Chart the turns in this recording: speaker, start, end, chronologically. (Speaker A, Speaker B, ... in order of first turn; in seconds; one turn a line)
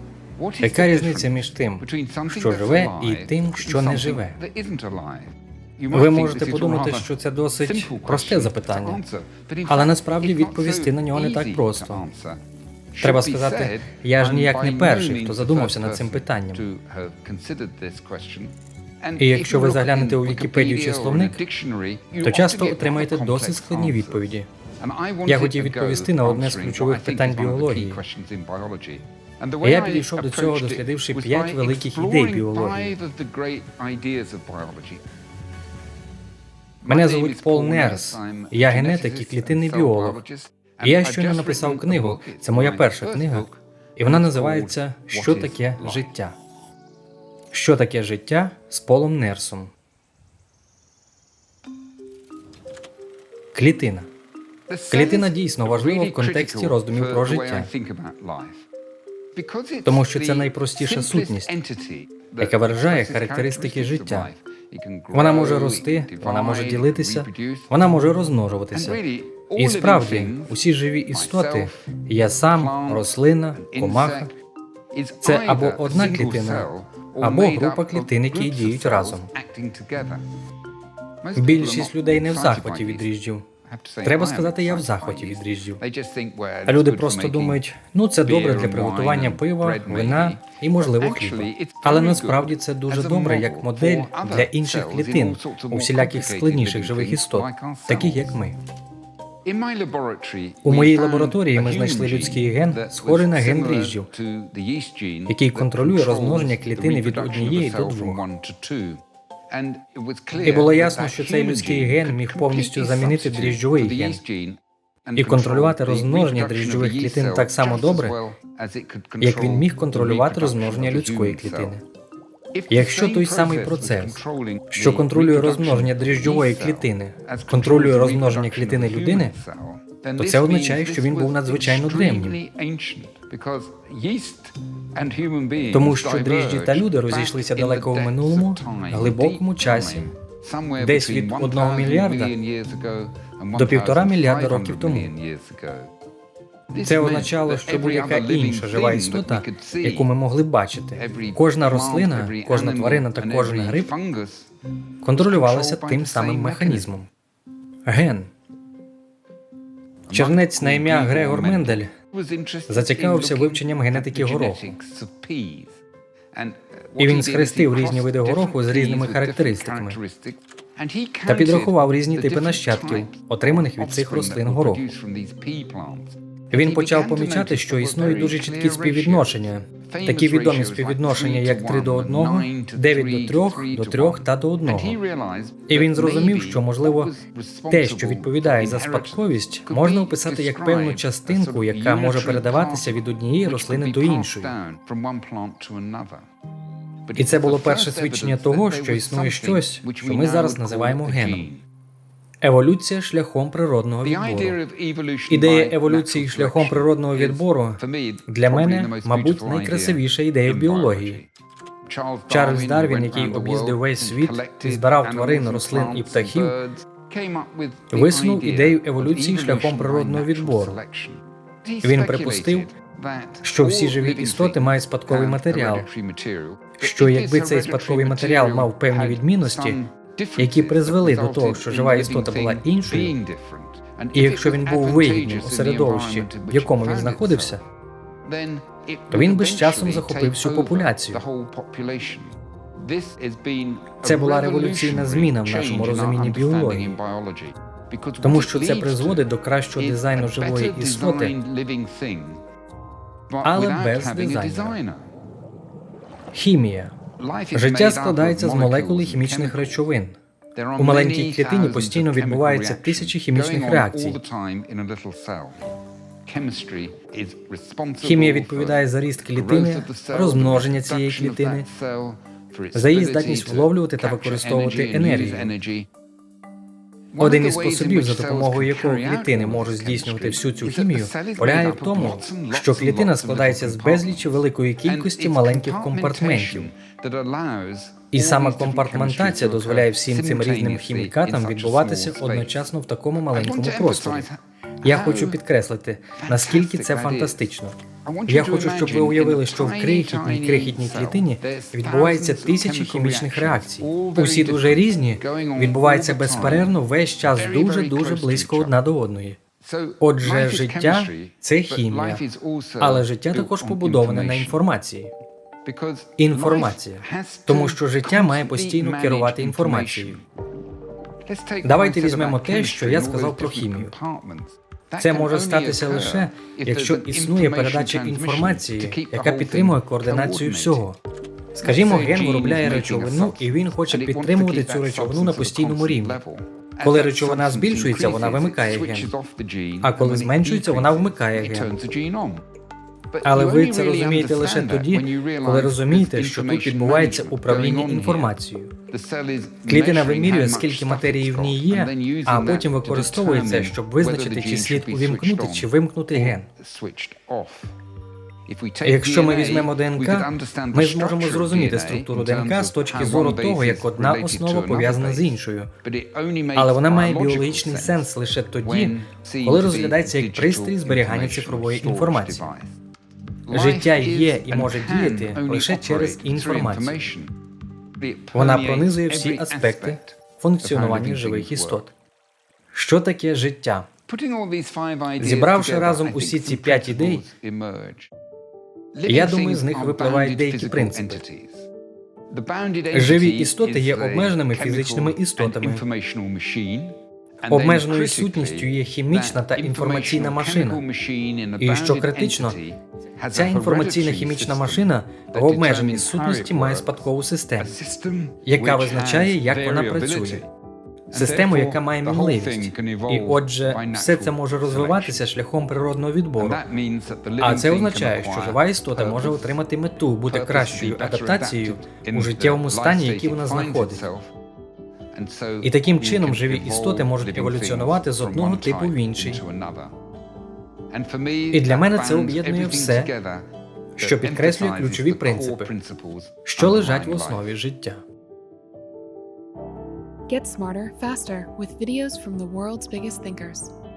Speaker A: 0.4-12.4
Speaker B: 0.6-4.4
Speaker B: 5.9-9.0
Speaker B: 9.7-12.0
Speaker A: 12.9-35.0
Speaker B: 13.0-16.6
Speaker B: 19.2-21.4
Speaker B: 22.2-24.5
Speaker B: 25.2-28.0
Speaker B: 29.6-32.9
Speaker A: 36.8-46.1
Speaker B: 36.9-40.2
Speaker B: 40.8-43.5
Speaker B: 44.0-46.3
Speaker B: 47.5-49.7
Speaker B: 53.5-54.1
Speaker A: 54.7-58.6
Speaker B: 54.9-57.7
Speaker A: 59.3-67.7
Speaker B: 59.9-61.5
Speaker B: 62.4-64.3
Speaker B: 65.1-69.0
Speaker A: 68.7-70.6
Speaker B: 69.5-74.3
Speaker A: 71.1-71.9
Speaker A: 72.5-74.3
Speaker A: 74.9-80.2
Speaker B: 75.2-79.3
Speaker A: 81.2-83.1
Speaker B: 81.3-83.4
Speaker A: 83.6-87.6
Speaker B: 84.0-85.8
Speaker B: 86.7-98.6
Speaker A: 88.2-98.4
Speaker A: 99.4-121.8
Speaker B: 100.6-104.1
Speaker B: 105.3-108.2
Speaker B: 110.4-114.2
Speaker B: 115.2-118.2
Speaker B: 119.2-121.8
Speaker A: 122.5-145.9
Speaker B: 122.7-124.2
Speaker B: 124.7-129.4
Speaker B: 130.2-132.4
Speaker B: 135.7-140.1
Speaker B: 140.8-142.3
Speaker B: 143.5-145.1
Speaker A: 146.7-150.1
Speaker B: 146.7-153.9
Speaker A: 150.9-154.5
Speaker B: 155.0-157.1
Speaker A: 155.1-156.9
Speaker B: 157.8-158.3
Speaker A: 160.1-165.8
Speaker B: 160.1-161.9
Speaker B: 162.7-164.7
Speaker A: 166.3-196.2
Speaker B: 167.0-170.0
Speaker B: 171.2-174.8
Speaker B: 176.5-185.0
Speaker B: 185.7-187.1
Speaker B: 187.7-194.6
Speaker A: 197.1-201.6
Speaker B: 197.2-201.5
Speaker B: 202.4-204.6
Speaker A: 204.0-211.3
Speaker B: 205.3-211.2
Speaker A: 211.8-237.6
Speaker B: 212.3-216.6
Speaker B: 217.9-220.8
Speaker B: 221.8-222.7
Speaker B: 223.4-225.9
Speaker B: 226.8-229.8
Speaker B: 230.4-233.2
Speaker B: 234.1-237.6
Speaker A: 238.2-252.4
Speaker B: 239.1-241.2
Speaker B: 244.0-246.9
Speaker B: 248.2-251.4
Speaker A: 253.3-255.0
Speaker B: 253.4-254.8
Speaker B: 256.3-256.9
Speaker A: 257.2-259.8
Speaker B: 257.5-260.2
Speaker A: 260.5-265.6
Speaker B: 260.8-264.2
Speaker A: 266.2-275.9
Speaker B: 268.0-271.7
Speaker B: 272.7-275.6
Speaker A: 277.1-292.7
Speaker B: 277.2-286.7
Speaker B: 288.1-294.3
Speaker A: 293.3-295.4
Speaker B: 294.8-309.4
Speaker A: 296.2-297.5
Speaker A: 298.0-308.7
Speaker A: 309.6-314.6
Speaker B: 310.0-312.2
Speaker B: 312.8-315.1
Speaker A: 315.6-320.2
Speaker B: 316.2-320.2
Speaker A: 321.2-330.9
Speaker B: 321.6-323.9
Speaker B: 325.0-331.0
Speaker B: 331.5-336.2
Speaker A: 331.6-342.4
Speaker B: 336.8-339.1
Speaker B: 339.8-341.8
Speaker A: 343.1-348.3
Speaker B: 343.2-348.7
Speaker A: 348.9-357.7
Speaker B: 349.6-356.5
Speaker A: 358.5-368.1
Speaker B: 358.8-365.7
Speaker B: 366.5-372.5
Speaker A: 368.6-372.7
Speaker A: 373.5-377.3
Speaker B: 373.5-377.0
Speaker A: 378.0-381.9
Speaker B: 378.3-381.9
Speaker B: 382.7-383.9
Speaker A: 384.1-388.1
Speaker B: 385.2-387.2
Speaker A: 388.9-391.7
Speaker B: 389.1-391.2
Speaker A: 392.3-407.1
Speaker B: 392.9-395.8
Speaker B: 397.5-400.8
Speaker B: 401.6-402.6
Speaker B: 403.3-407.7
Speaker A: 407.6-410.5
Speaker B: 408.4-410.4
Speaker A: 411.1-415.2
Speaker B: 411.1-416.6
Speaker A: 416.4-419.6
Speaker B: 417.4-424.0
Speaker A: 420.3-424.3
Speaker A: 425.1-429.9
Speaker B: 425.6-429.4
Speaker A: 430.9-433.4
Speaker B: 431.5-433.1
Speaker B: 434.0-435.7
Speaker A: 434.0-437.5
Speaker B: 436.4-438.0
Speaker C: 440.3-443.7